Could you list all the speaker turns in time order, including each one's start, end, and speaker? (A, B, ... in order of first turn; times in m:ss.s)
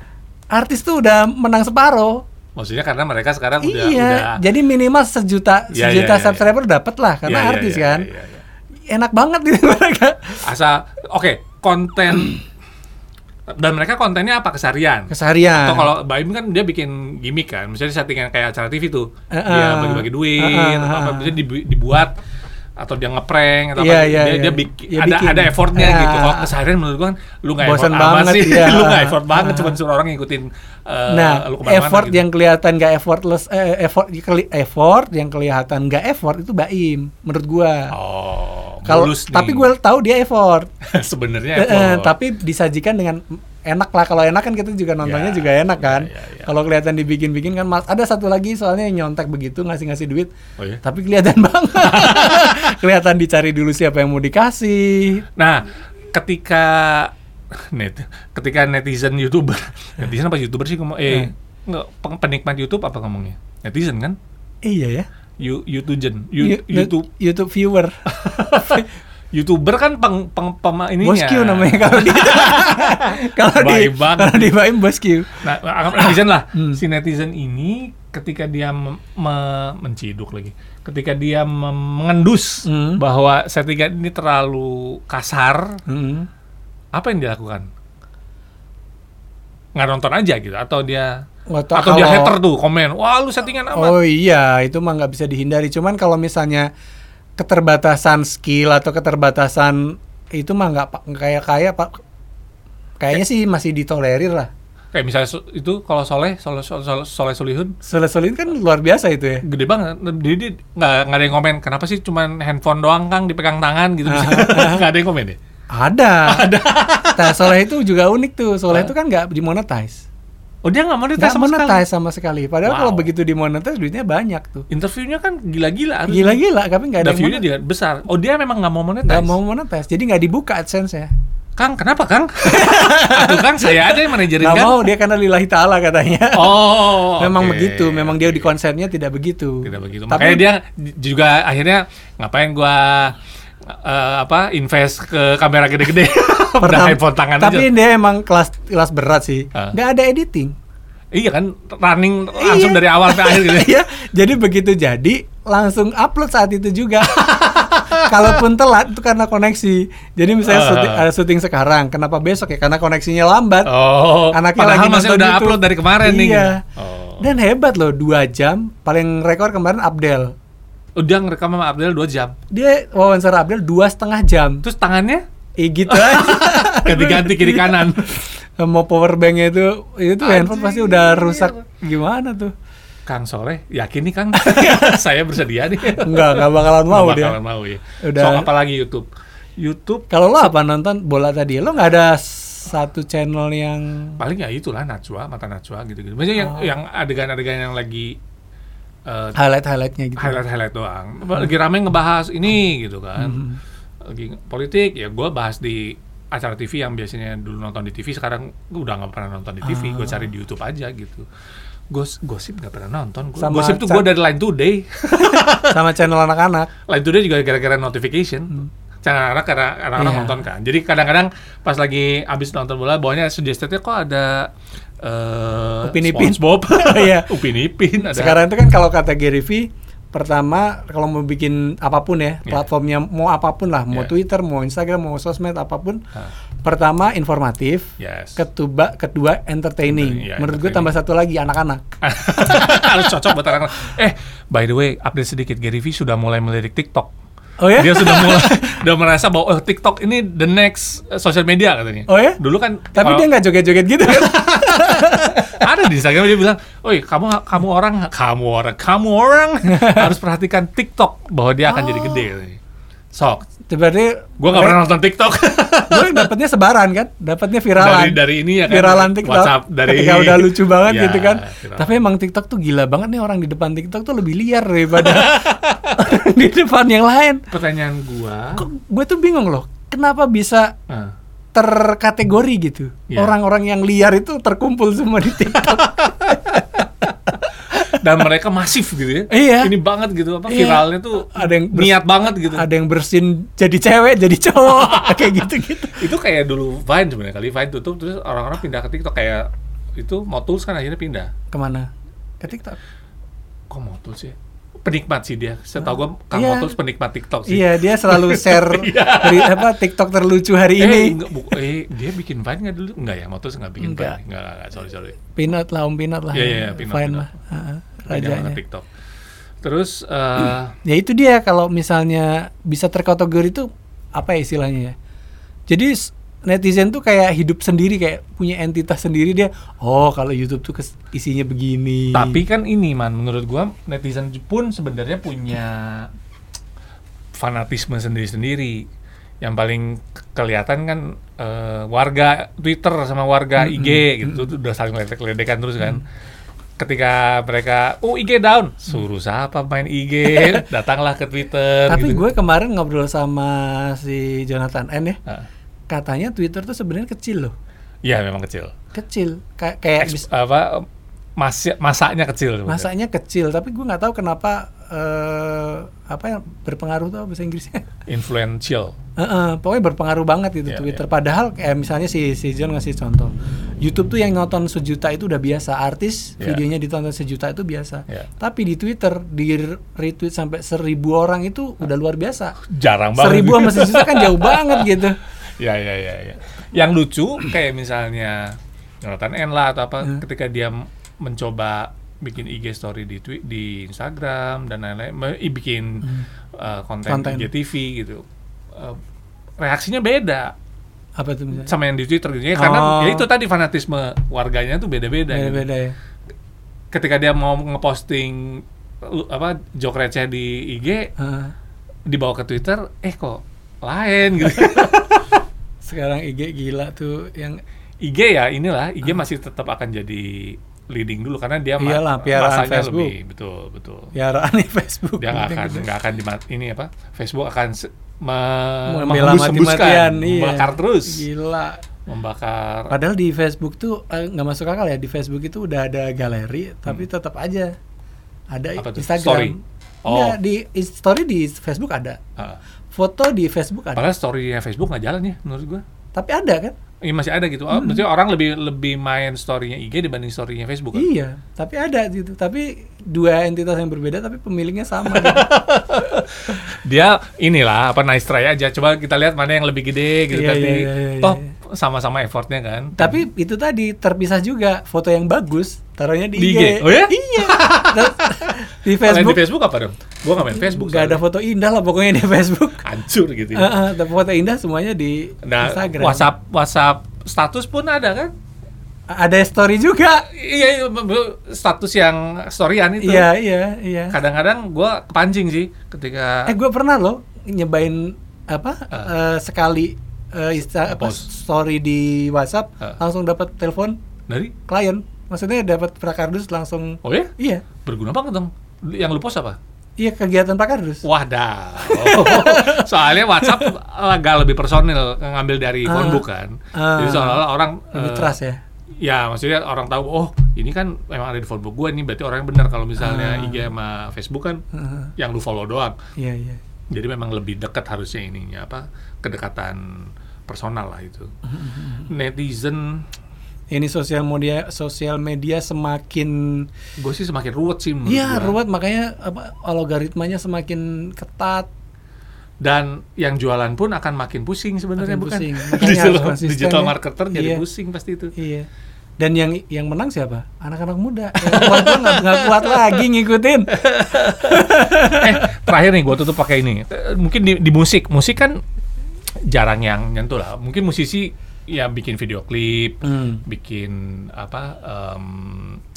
0:00.5-0:02.2 A
0:02.6-0:04.4 B
0:03.6-0:08.1 A
0:05.7-0:06.5 B
0:07.2-0:08.4 B
0:08.9-0:10.4 A
0:10.4-0:12.4 B
0:13.5-0:22.2 B
0:15.1-0:15.9 A
0:19.3-0:21.3 A
0:22.8-0:32.2 B
0:23.8-0:26.5 A
0:27.6-0:29.8 A
0:31.1-0:37.9 A
0:37.9-0:39.7 B
0:38.8-0:40.7 A
0:40.8-0:42.1 B
0:41.5-0:50.3 A
0:45.0-0:46.5 B
0:50.8-0:55.2 A
0:51.8-0:52.7 B
0:55.4-1:04.2 B
1:04.6-1:05.1 A
1:05.4-1:07.0 B
1:06.4-1:08.0 A
1:08.1-1:14.6 B
1:11.0-1:16.8 A
1:15.4-1:25.8 B
1:22.6-1:23.0 A
1:25.9-1:26.3 A
1:26.9-1:27.7 B
1:29.8-1:31.1 B
1:31.5-1:32.4 A
1:31.7-1:34.0 B
1:33.7-1:36.7 A
1:37.4-1:42.0 A
1:43.0-1:44.5 A
1:44.9-1:47.8 B
1:47.8-1:49.4 A
1:49.4-1:55.4 B
1:54.0-1:54.8 A
1:55.7-1:56.4 A
1:56.3-1:57.6 B
1:57.1-2:00.0 A
2:00.6-2:01.8 B
2:01.2-2:04.7 A
2:02.6-2:03.1 B
2:04.7-2:06.4 B
2:06.1-2:07.4 A
2:07.0-2:09.3 B
2:09.0-2:11.1 A
2:11.6-2:14.8 B
2:12.4-2:20.4 A
2:16.3-2:18.5 B
2:19.6-2:27.7 B
2:26.6-2:30.6 A
2:31.1-2:33.8 B
2:32.4-2:43.7 A
2:37.1-2:38.4 B
2:40.4-2:41.0 B
2:43.6-2:47.2 B
2:44.3-2:46.6 A
2:47.2-2:50.3 A
2:51.0-2:52.3 B
2:52.5-2:54.6 A
2:54.6-2:55.2 B
2:55.6-3:02.5 A
2:55.9-2:58.1 B
3:00.2-3:01.6 B
3:03.1-3:10.1 B
3:04.3-3:04.9 A
3:05.9-3:07.4 A
3:08.0-3:08.5 A
3:10.1-3:14.2 A
3:14.2-3:18.2 B
3:16.4-3:16.7 A
3:19.0-3:19.4 B
3:19.3-3:20.4 A
3:20.2-3:23.4 B
3:23.2-3:23.6 A
3:24.0-3:31.2 B
3:29.6-3:30.3 A
3:31.9-3:35.8 B
3:33.4-3:34.1 A
3:35.1-3:36.7 A
3:36.9-3:44.5 B
3:40.0-3:40.4 A
3:45.0-3:48.4 B
3:45.8-3:47.3 A
3:48.0-3:56.0 A
3:56.6-4:01.9 A
3:58.0-3:58.4 B
3:59.8-4:00.9 B
4:02.0-4:07.1 B
4:07.6-4:08.8 A
4:07.7-4:13.3 B
4:12.1-4:12.4 A
4:12.9-4:15.6 A
4:14.0-4:22.6 B
4:19.7-4:20.0 A
4:21.6-4:22.3 A
4:23.1-4:23.5 B
4:23.7-4:24.8 A
4:24.4-4:26.3 B
4:25.9-4:37.4 A
4:27.8-4:32.0 B
4:34.9-4:36.0 B
4:37.5-4:38.6 B
4:38.6-4:40.7 A
4:40.9-4:41.1 B
4:41.5-4:46.8 A
4:45.5-4:46.8 B
4:47.7-4:48.0 A
4:47.7-4:52.6 B
4:49.3-4:49.7 A
4:50.5-4:56.0 A
4:54.6-5:01.3 B
5:01.5-5:01.9 A
5:02.4-5:02.8 A
5:03.7-5:09.7 B
5:06.3-5:06.7 A
5:07.4-5:11.2 A
5:10.8-5:15.2 B
5:13.8-5:14.2 A
5:15.3-5:18.6 A
5:16.3-5:17.3 B
5:18.1-5:18.9 B
5:19.6-5:20.7 B
5:20.8-5:25.0 A
5:25.7-5:32.4 A
5:32.1-5:36.1 B
5:37.3-5:38.8 B
5:39.4-5:46.0 B
5:43.6-5:44.4 A
5:46.8-5:52.2 B
5:51.9-5:55.2 A
5:55.9-5:57.5 A
5:58.0-5:58.7 B
5:58.9-6:00.3 A
6:00.0-6:00.8 B
6:01.4-6:02.9 B
6:02.7-6:07.9 A
6:08.1-6:09.0 B
6:09.2-6:22.6 A
6:10.7-6:11.0 B
6:22.6-6:39.0 B
6:23.2-6:25.2 A
6:37.0-6:37.5 A
6:39.6-6:40.5 B
6:41.2-6:41.7 A
6:41.6-6:45.6 B
6:42.5-6:43.2 A
6:45.3-6:46.0 A
6:46.9-6:51.1 B
6:51.2-6:51.5 A
6:52.1-6:55.0 B
6:54.5-6:55.2 A
6:55.8-6:57.6 A
6:58.0-7:04.1 B
7:01.8-7:03.1 A
7:04.1-7:05.9 A
7:05.2-7:11.2 B
7:08.9-7:11.8 A
7:12.0-7:12.9 B
7:12.9-7:17.7 A
7:18.5-7:22.2 A
7:18.8-7:19.5 B
7:20.0-7:20.4 B
7:22.9-7:24.0 A
7:24.0-7:25.8 B
7:26.1-7:26.7 A
7:27.0-7:31.1 B
7:27.7-7:28.0 A
7:30.9-7:35.5 A
7:35.0-7:43.2 B
7:40.3-7:41.5 A
7:43.0-7:49.4 A
7:46.4-7:51.2 B
7:50.4-7:52.8 A
7:52.8-7:53.8 B
7:53.5-7:56.3 A
7:55.4-7:58.3 B
7:59.1-8:00.2 A
8:00.2-8:03.3 B
8:03.0-8:04.2 A
8:04.1-8:06.5 B
8:06.4-8:14.0 A
8:10.8-8:11.3 B
8:14.3-8:14.5 B
8:14.7-8:17.6 A
8:17.0-8:17.3 B
8:17.8-8:19.6 B
8:20.0-8:21.0 A
8:21.0-8:28.4 B
8:21.8-8:22.8 A
8:23.4-8:23.7 A
8:25.8-8:28.6 A
8:29.0-8:34.6 B
8:33.0-8:33.6 A
8:34.7-8:35.1 A
8:35.2-8:36.0 B
8:36.2-8:36.6 A
8:36.9-8:41.3 B
8:41.4-8:42.1 A
8:42.1-8:43.0 B
8:43.7-8:46.7 A
8:47.0-8:48.6 B
8:48.0-8:51.7 A
8:52.6-8:58.3 B
8:55.0-8:57.6 A
8:58.3-8:58.7 A
8:59.2-9:03.8 A
9:01.4-9:03.0 B
9:03.7-9:08.6 B
9:04.3-9:05.3 A
9:09.5-9:15.8 B
9:13.0-9:13.4 A